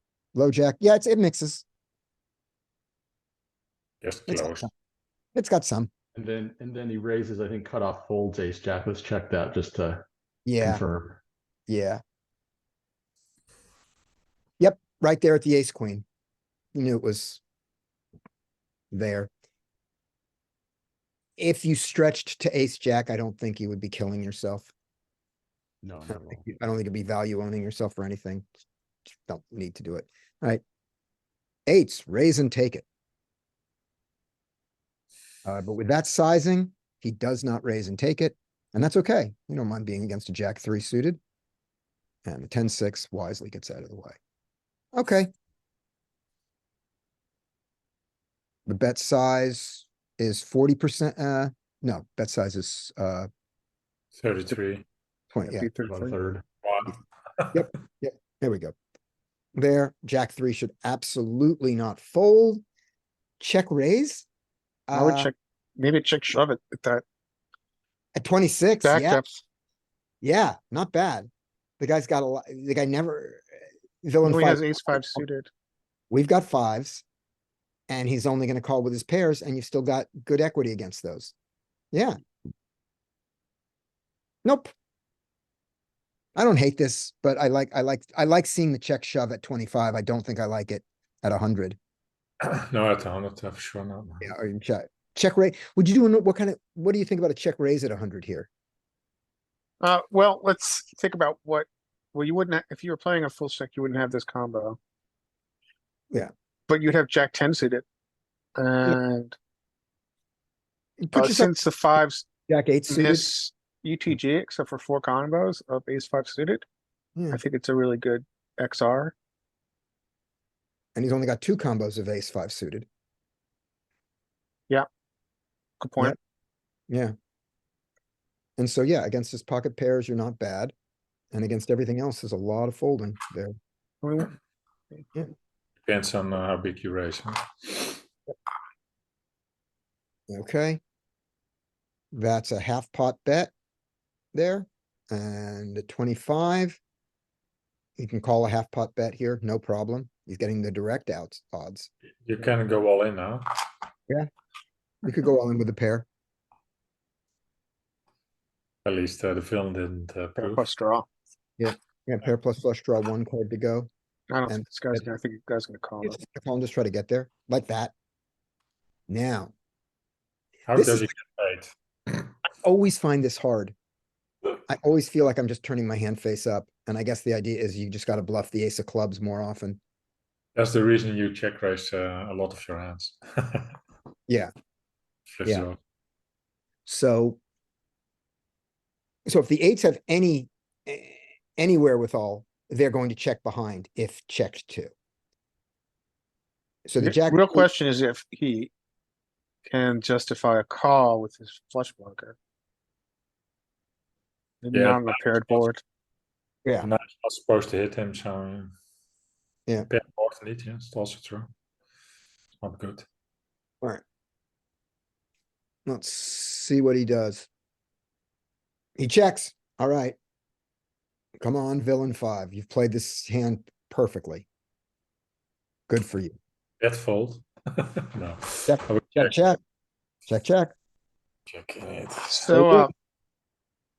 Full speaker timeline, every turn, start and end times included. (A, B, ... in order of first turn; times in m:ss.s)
0:00.4-0:01.6 A
0:04.0-0:04.7 B
0:04.3-0:04.7 A
0:05.4-0:05.9 A
0:06.2-0:10.0 C
0:10.5-0:10.8 A
0:10.6-0:11.2 C
0:11.7-0:12.0 A
0:14.6-0:16.0 A
0:16.8-0:17.4 A
0:18.9-0:19.3 A
0:21.4-0:24.7 A
0:25.8-0:26.4 C
0:26.1-0:28.4 A
0:29.1-0:30.6 A
0:31.7-0:32.8 A
0:35.4-0:41.2 A
0:42.3-0:44.2 A
0:44.9-0:45.3 A
0:48.7-0:53.3 A
0:54.2-0:54.8 B
0:55.3-0:55.7 A
0:55.5-0:56.2 D
0:55.8-0:56.4 C
0:56.6-0:57.6 B
0:57.5-0:58.8 A
0:59.6-1:02.6 A
1:03.4-1:04.3 A
1:04.9-1:05.3 A
1:04.9-1:07.0 D
1:08.2-1:09.2 A
1:08.8-1:09.4 D
1:10.2-1:11.3 A
1:11.8-1:13.4 A
1:14.0-1:15.2 A
1:14.2-1:15.5 D
1:16.1-1:17.0 A
1:17.9-1:21.3 A
1:21.9-1:22.2 A
1:24.4-1:24.7 A
1:26.4-1:31.8 A
1:32.4-1:34.3 B
1:34.2-1:38.5 A
1:39.8-1:44.8 D
1:46.7-1:47.8 D
1:48.6-1:49.4 D
1:51.0-1:51.5 A
1:51.1-1:52.3 D
1:52.5-1:53.3 A
1:52.9-1:56.7 D
1:57.2-1:57.4 A
1:57.3-1:59.1 D
2:01.0-2:02.9 A
2:05.8-2:06.2 D
2:06.9-2:07.1 A
2:08.6-2:10.7 A
2:11.3-2:13.6 A
2:14.0-2:14.3 D
2:15.8-2:18.0 B
2:20.3-2:20.8 A
2:22.1-2:23.5 A
2:24.3-2:26.8 A
2:28.0-2:31.9 A
2:32.2-2:33.5 B
2:35.0-2:36.1 A
2:38.8-2:40.6 B
2:40.4-2:41.1 D
2:41.6-2:43.9 A
2:44.3-2:46.2 D
2:44.5-2:45.0 A
2:46.0-2:47.9 A
2:49.1-2:49.5 A
2:50.7-2:51.7 B
2:50.8-2:51.0 A
2:52.6-2:53.8 A
2:54.7-2:59.8 A
3:00.6-3:03.8 B
3:05.3-3:05.8 B
3:06.9-3:07.4 A
3:09.3-3:14.9 A
3:16.9-3:17.7 A
3:17.0-3:18.7 D
3:19.7-3:22.4 D
3:24.6-3:25.8 D
3:24.7-3:25.7 B
3:26.8-3:28.7 B
3:29.9-3:31.5 B
3:32.6-3:33.1 B
3:35.9-3:37.5 A
3:39.0-3:40.2 A
3:41.4-3:44.5 A
3:45.9-3:46.4 A
3:46.8-3:49.3 B
3:48.7-3:49.6 A
3:50.3-3:50.8 A
3:51.5-3:52.6 B
3:52.4-3:52.9 D